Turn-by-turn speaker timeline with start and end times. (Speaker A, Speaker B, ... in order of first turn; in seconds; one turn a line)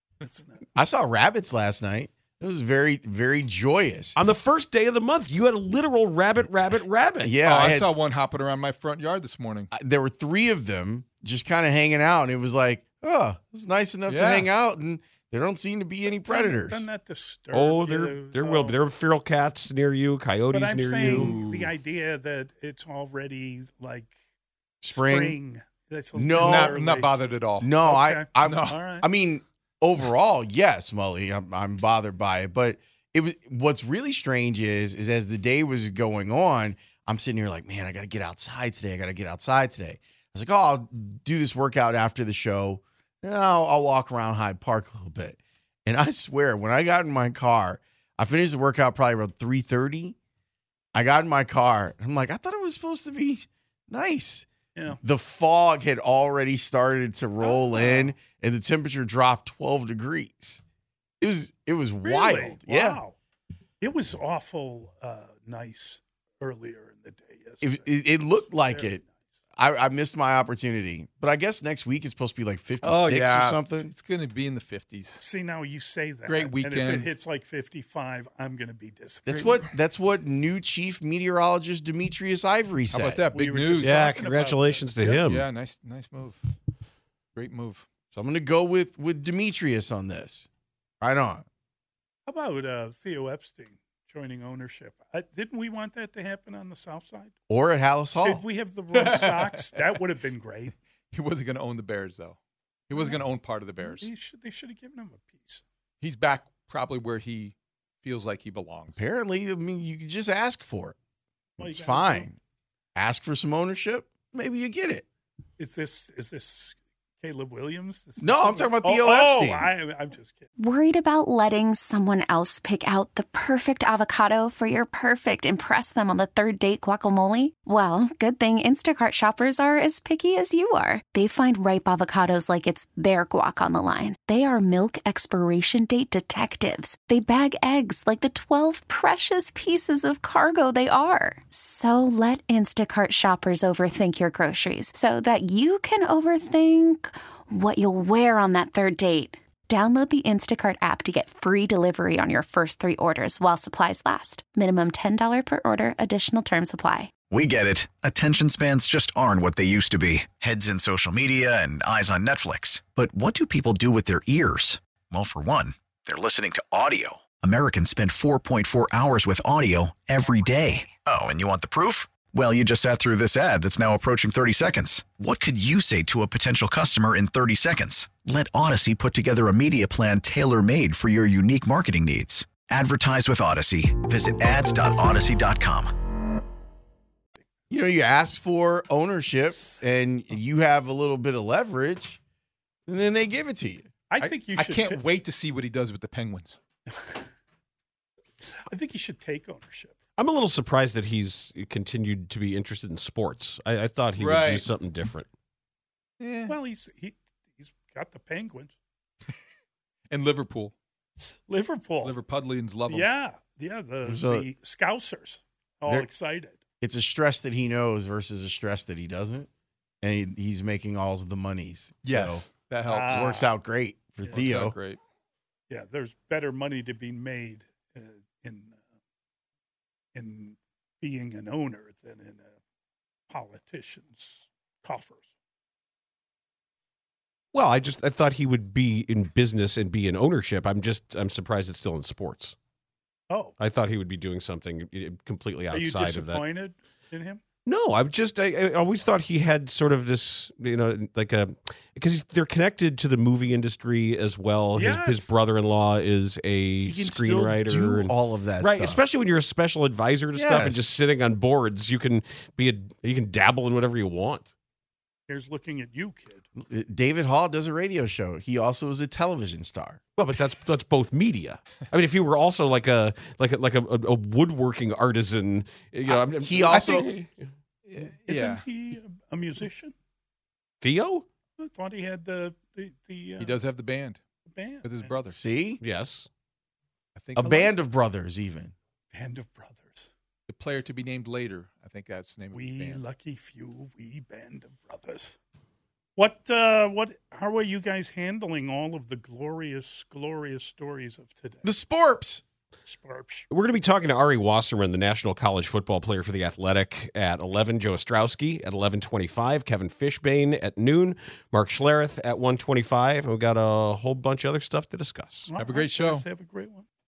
Speaker A: 0.2-0.7
Speaker B: 0.7-4.2
Speaker C: 4.1-7.4
Speaker B: 7.2-7.9
Speaker D: 7.4-9.7
Speaker B: 9.7-16.9
Speaker D: 14.1-14.5
Speaker A: 16.2-18.8
Speaker C: 17.5-21.4
Speaker A: 20.5-24.1
Speaker D: 21.1-21.7
Speaker B: 24.8-25.4
Speaker A: 24.9-27.2
Speaker B: 26.1-26.8
Speaker D: 26.4-27.7
Speaker B: 27.6-50.1
Speaker A: 27.7-29.1
Speaker D: 28.4-28.8
Speaker B: 50.9-60.6
Speaker A: 54.7-55.0
Speaker A: 57.4-58.1
Speaker B: 61.2-63.0
Speaker A: 62.0-63.1
Speaker A: 63.8-69.1
Speaker B: 67.6-69.0
Speaker B: 69.5-73.9
Speaker D: 72.8-75.2
Speaker A: 75.2-79.7
Speaker D: 76.2-77.2
Speaker B: 79.2-83.3
Speaker D: 82.9-84.0
Speaker A: 83.3-85.2
Speaker C: 83.8-85.5
Speaker D: 85.1-86.4
Speaker D: 87.3-87.8
Speaker B: 88.1-90.5
Speaker B: 91.0-91.4
Speaker A: 92.3-97.3
Speaker B: 97.5-98.4
Speaker A: 98.2-100.7
Speaker D: 98.9-100.0
Speaker D: 101.1-104.1
Speaker A: 102.9-103.2
Speaker A: 103.8-105.6
Speaker D: 106.0-109.0
Speaker B: 109.0-111.0
Speaker B: 111.6-112.3
Speaker A: 111.6-112.3
Speaker B: 112.9-115.0
Speaker A: 115.6-120.5
Speaker B: 118.2-119.7
Speaker E: 120.6-157.1
Speaker F: 157.3-185.9
Speaker B: 187.7-192.2
Speaker B: 192.9-193.8
Speaker A: 194.1-195.0
Speaker D: 194.2-196.6
Speaker A: 196.9-197.3
Speaker A: 198.4-199.9
Speaker C: 200.2-205.3
Speaker D: 204.1-204.6
Speaker D: 206.2-206.6
Speaker A: 206.5-208.7
Speaker D: 210.1-210.7
Speaker A: 211.5-212.1
Speaker D: 212.0-213.1
Speaker A: 212.9-216.6
Speaker B: 214.0-214.5
Speaker B: 216.8-219.5
Speaker B: 220.0-222.5
Speaker D: 222.0-223.3
Speaker A: 222.9-223.5
Speaker B: 223.1-224.8
Speaker D: 224.3-225.0
Speaker A: 225.7-228.8
Speaker A: 230.1-232.5
Speaker A: 233.3-235.2
Speaker C: 237.5-242.6
Speaker C: 243.6-246.4
Speaker A: 245.7-247.4
Speaker C: 247.7-264.5
Speaker A: 254.7-255.3
Speaker B: 256.8-259.0
Speaker B: 260.3-260.9
Speaker A: 265.3-266.4
Speaker B: 266.6-270.0
Speaker C: 270.2-277.5
Speaker B: 276.3-277.1
Speaker D: 276.7-277.1
Speaker D: 277.9-278.6
Speaker A: 278.2-279.9
Speaker C: 280.8-281.2
Speaker A: 281.6-283.5
Speaker D: 283.4-284.2
Speaker A: 284.5-285.1
Speaker D: 284.8-285.4
Speaker B: 285.3-285.8
Speaker C: 285.8-286.3
Speaker D: 287.1-287.7
Speaker B: 287.4-288.7
Speaker A: 287.4-287.6
Speaker A: 289.1-290.1
Speaker D: 290.5-293.0
Speaker A: 292.5-295.4
Speaker A: 296.1-301.7
Speaker B: 301.6-302.4
Speaker A: 302.9-303.4
Speaker C: 303.5-315.5
Speaker A: 315.5-316.8
Speaker D: 315.6-316.3